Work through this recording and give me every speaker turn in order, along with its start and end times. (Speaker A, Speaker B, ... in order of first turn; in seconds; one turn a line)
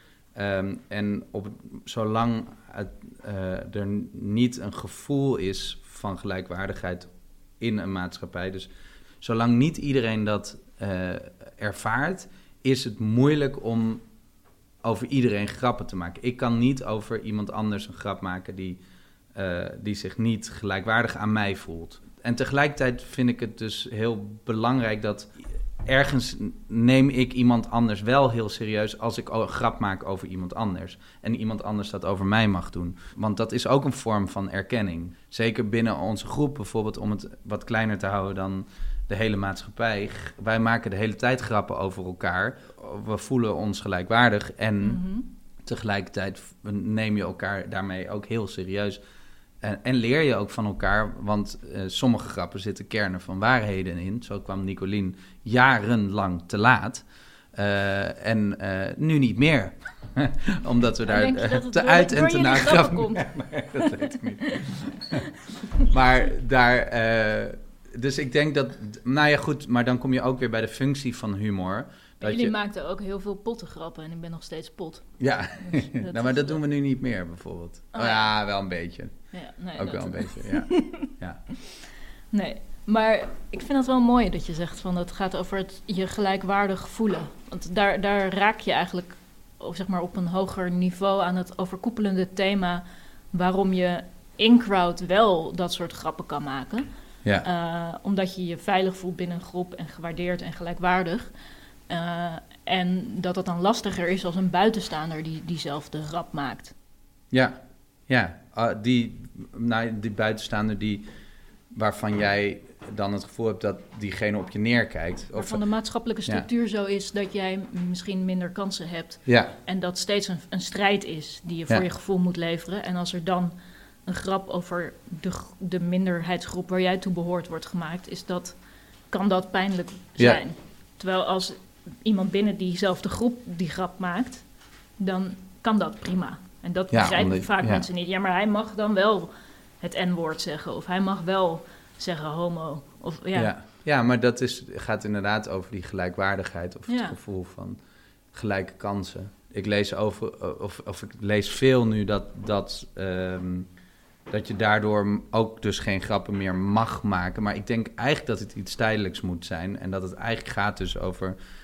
Speaker A: 0.3-7.1
Speaker A: 7.6-14.0
Speaker A: 14.8-18.8
Speaker A: 19.4-25.3
Speaker A: 25.9-45.0
Speaker B: 44.8-45.3
Speaker A: 45.6-49.0
Speaker A: 49.6-65.2
Speaker B: 61.1-64.2
Speaker A: 65.9-72.5
Speaker B: 72.2-76.6
Speaker A: 75.2-79.2
Speaker B: 77.9-78.3
Speaker B: 79.3-81.1
Speaker A: 79.8-81.4
Speaker B: 82.3-96.9
Speaker B: 97.4-101.3
Speaker B: 101.9-106.7
Speaker A: 107.3-111.1
Speaker A: 111.7-115.6
Speaker B: 115.3-123.5
Speaker A: 119.3-119.5
Speaker B: 124.1-128.6
Speaker B: 129.1-134.5
Speaker B: 135.0-143.5
Speaker A: 136.9-137.9
Speaker A: 143.3-147.8
Speaker B: 146.9-147.2
Speaker A: 148.3-153.7
Speaker A: 154.3-161.4